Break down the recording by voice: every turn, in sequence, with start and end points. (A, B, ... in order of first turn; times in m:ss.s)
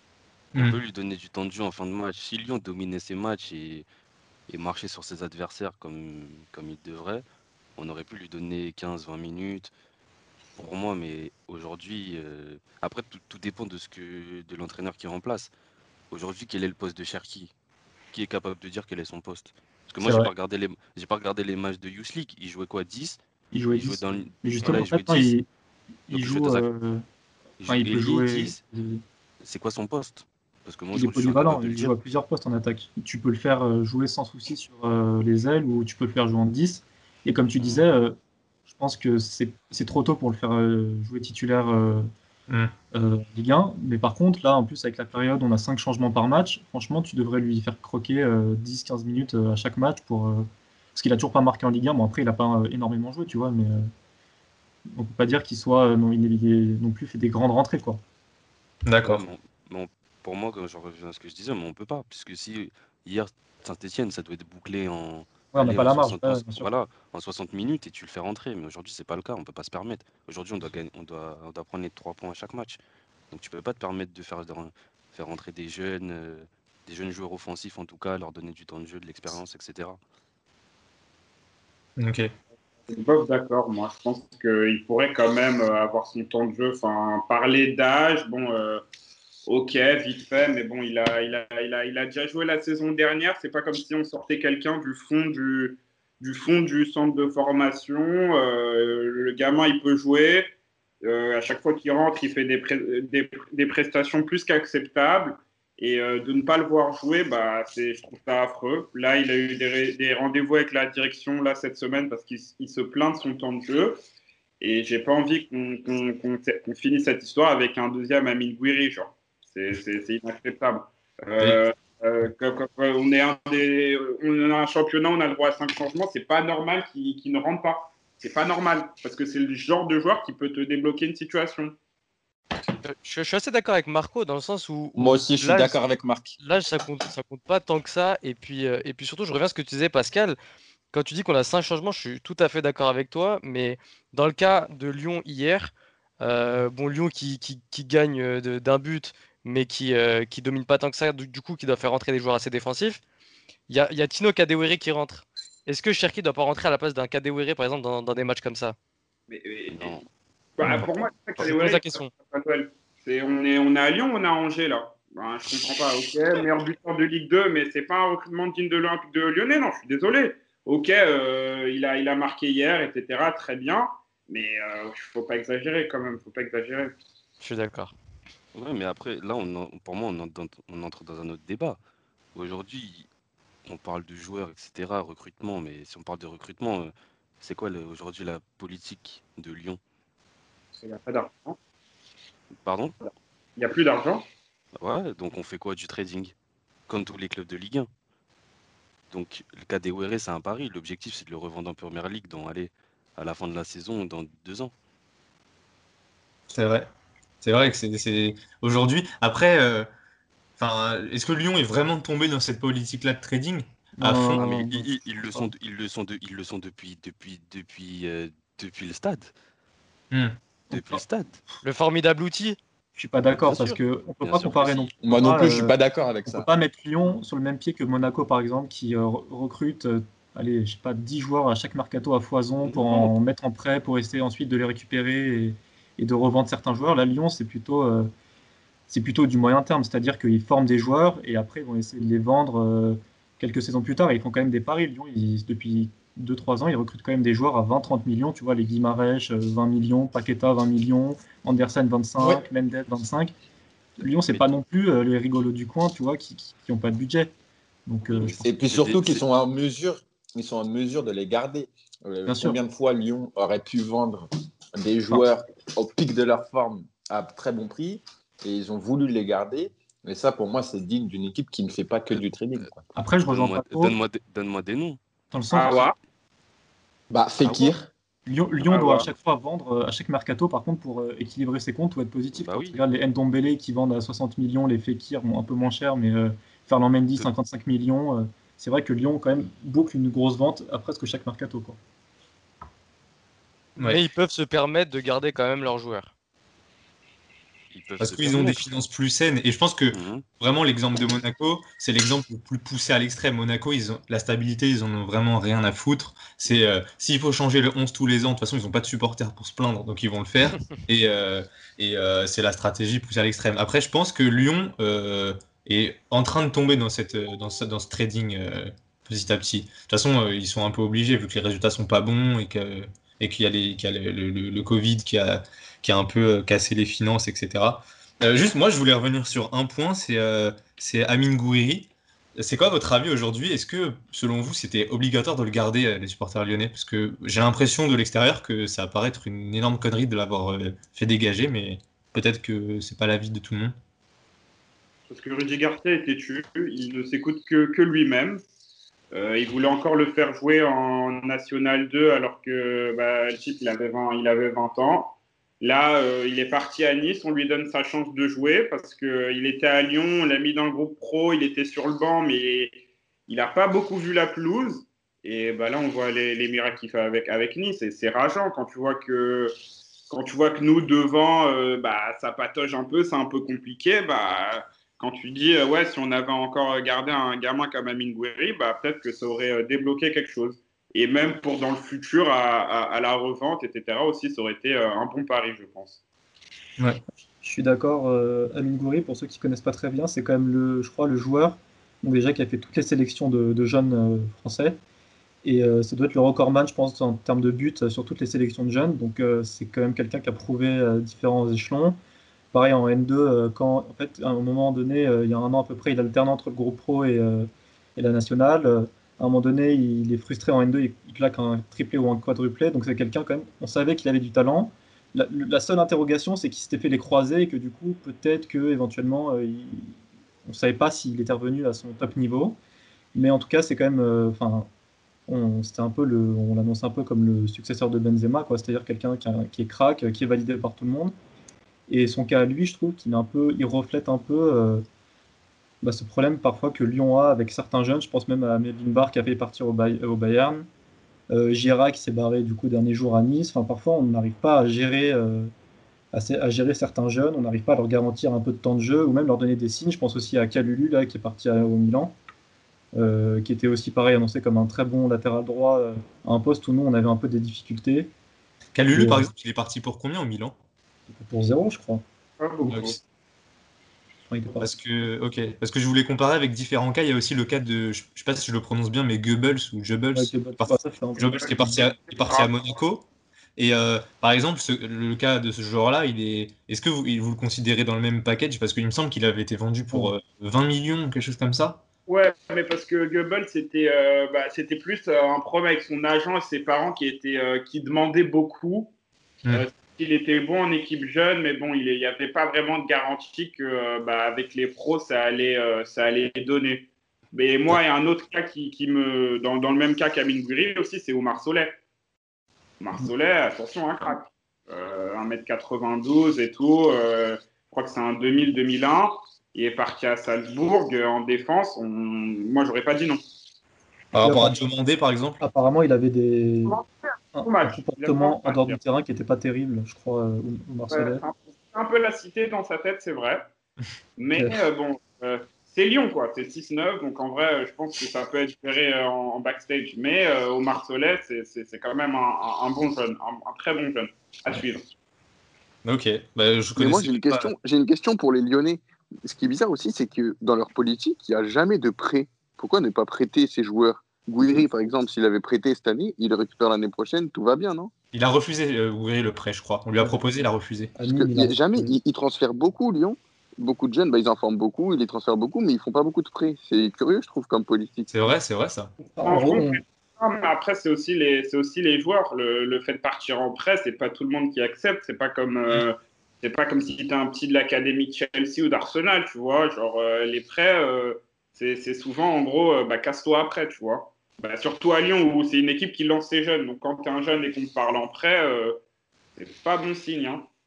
0:00.5-0:03.8 A
0:04.5-0:07.2 A
0:07.8-0:09.7 A
0:10.6-0:15.5 A
0:16.1-0:17.5 A
0:18.1-0:23.2 A
0:20.0-0:20.3 B
0:23.5-0:25.5 B
0:23.7-0:25.4 A
0:26.1-0:27.0 B
0:26.1-0:26.6 A
0:27.6-0:28.6 A
0:27.7-0:29.0 B
0:29.4-0:31.9 A
0:30.9-0:38.2 B
0:37.6-0:37.8 A
0:38.7-0:42.1 B
0:42.9-0:53.9 B
0:54.9-0:58.0 B
0:58.8-0:59.2 C
0:59.0-1:12.8 A
1:05.5-1:06.7 B
1:13.3-1:20.0 A
1:22.0-1:22.3 C
1:22.9-1:28.8 D
1:29.5-1:40.5 D
1:41.0-1:54.0 D
1:54.6-2:11.7 D
2:12.8-2:15.8 E
2:14.9-2:16.4 F
2:16.4-2:20.4 E
2:20.9-2:33.0 E
2:33.7-2:38.7 E
2:39.3-2:40.0 D
2:39.7-2:40.0 A
2:40.6-2:56.9 D
2:41.4-2:42.1 E
2:57.4-2:57.9 E
2:58.5-3:01.8 A
3:02.3-3:03.1 A
3:03.6-3:09.8 A
3:10.8-3:11.6 D
3:12.6-3:12.9 A
3:13.0-3:14.2 D
3:14.8-3:16.3 A
3:16.9-3:17.9 A
3:19.1-3:24.7 A
3:26.5-3:26.9 C
3:27.4-3:29.9 C
3:30.6-3:34.5 C
3:34.0-3:35.5 B
3:34.3-3:39.3 A
3:40.1-3:40.4 C
3:40.7-3:41.4 A
3:41.6-3:42.6 E
3:43.0-3:58.1 B
3:43.4-3:45.3 A
3:45.0-3:46.5 F
3:52.6-3:53.1 A
3:58.9-4:13.3 B
4:14.0-4:17.3 B
4:17.9-4:18.4 B
4:18.1-4:19.2 A
4:18.4-4:32.8 F
4:22.3-4:22.6 B
4:32.1-4:32.7 A
4:32.9-4:34.0 B
4:33.3-4:35.0 A
4:35.3-4:35.9 B
4:35.5-4:35.9 D
4:37.1-4:37.9 F
4:37.4-4:37.7 A
4:38.3-4:51.8 B
4:38.6-4:39.1 D
4:42.4-4:42.8 A
4:53.8-4:56.1 E
4:57.7-4:58.8 A
4:58.0-5:43.7 C
4:59.9-5:00.2 A
5:45.1-5:48.4 D
5:49.1-6:09.5 D
6:10.1-6:26.0 D
6:27.4-6:34.8 B
6:35.4-6:42.0 B
6:42.5-7:00.0 B
7:00.5-7:02.6 B
7:03.1-7:04.7 B
7:05.3-7:11.1 B
7:11.9-7:14.8 B
7:15.8-7:20.7 B
7:21.3-7:25.5 B
7:26.1-7:32.1 B
7:32.9-7:38.1 B
7:38.7-7:40.6 C
7:38.9-7:39.3 B
7:41.1-7:42.0 B
7:42.4-7:43.0 D
7:42.7-7:43.0 C
7:44.3-7:44.7 B
7:44.6-7:53.0 C
7:50.1-7:51.8 B
7:53.6-8:01.8 C
8:02.1-8:08.9 D
8:09.5-8:21.8 D
8:22.8-8:33.2 D
8:34.1-8:35.4 C
8:34.2-8:34.6 B
8:35.4-8:36.8 B
8:37.3-8:41.2 B
8:37.4-8:38.8 D
8:40.9-8:43.4 D
8:44.2-8:54.8 D
8:55.8-8:57.5 C
8:56.8-9:07.9 G
9:08.1-9:10.9 C
9:10.9-9:11.9 B
9:11.1-9:18.2 G
9:18.1-9:18.9 C
9:19.0-9:19.8 B
9:19.2-9:38.8 D
9:39.4-9:40.5 D